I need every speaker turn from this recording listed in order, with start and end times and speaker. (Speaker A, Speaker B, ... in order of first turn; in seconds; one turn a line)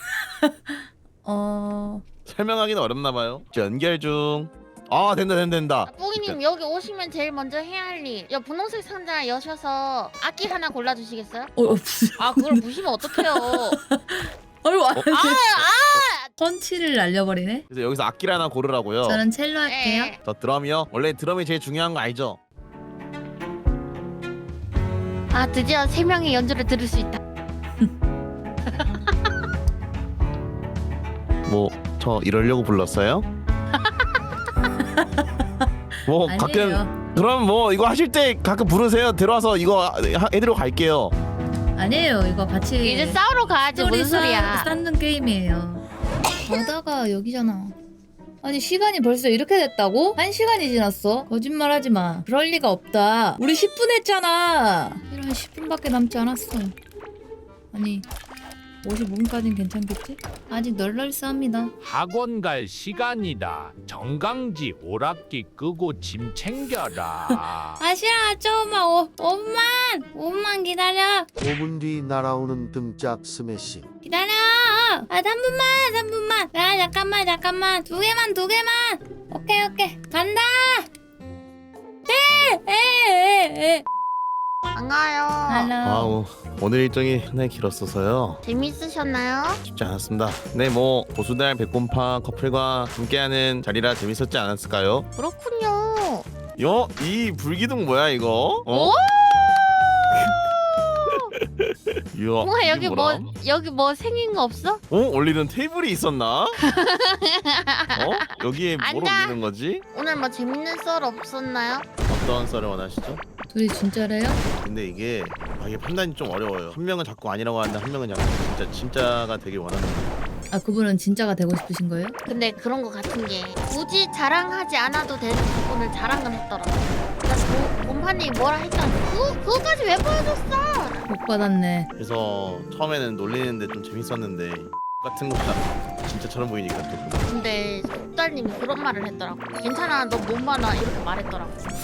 Speaker A: 0.4-2.0
Speaker B: 2.2-6.4
Speaker C: 5.9-11.5
Speaker A: 11.6-15.7
Speaker C: 12.2-13.8
Speaker C: 15.1-16.3
Speaker A: 16.4-17.6
Speaker B: 17.7-19.2
Speaker A: 19.0-20.1
Speaker C: 19.6-20.2
Speaker B: 20.2-22.4
Speaker C: 25.3-27.2
Speaker B: 31.4-33.3
Speaker C: 33.8-34.2
Speaker B: 36.1-41.1
Speaker A: 36.2-37.0
Speaker A: 41.7-43.2
Speaker C: 42.8-44.7
Speaker A: 43.7-45.8
Speaker A: 46.4-47.7
Speaker A: 48.4-56.7
Speaker A: 57.7-58.1
Speaker A: 58.8-61.7
Speaker D: 61.8-67.8
Speaker A: 67.8-71.3
Speaker E: 71.4-73.9
Speaker A: 74.0-80.9
Speaker A: 82.1-83.8
Speaker C: 84.7-85.7
Speaker A: 85.5-86.2
Speaker B: 85.8-88.4
Speaker C: 88.4-89.6
Speaker B: 89.7-95.1
Speaker C: 95.2-96.3
Speaker B: 96.6-99.0
Speaker C: 98.7-99.2
Speaker C: 100.3-101.3
Speaker B: 102.1-103.3
Speaker C: 102.4-104.8
Speaker B: 104.9-106.6
Speaker C: 106.6-109.3
Speaker B: 107.9-109.8
Speaker C: 109.9-111.9
Speaker B: 112.0-113.2
Speaker A: 113.5-114.4
Speaker B: 114.6-120.1
Speaker A: 120.5-122.2
Speaker C: 122.3-131.0
Speaker A: 131.1-131.9
Speaker B: 131.9-137.3
Speaker C: 137.3-141.6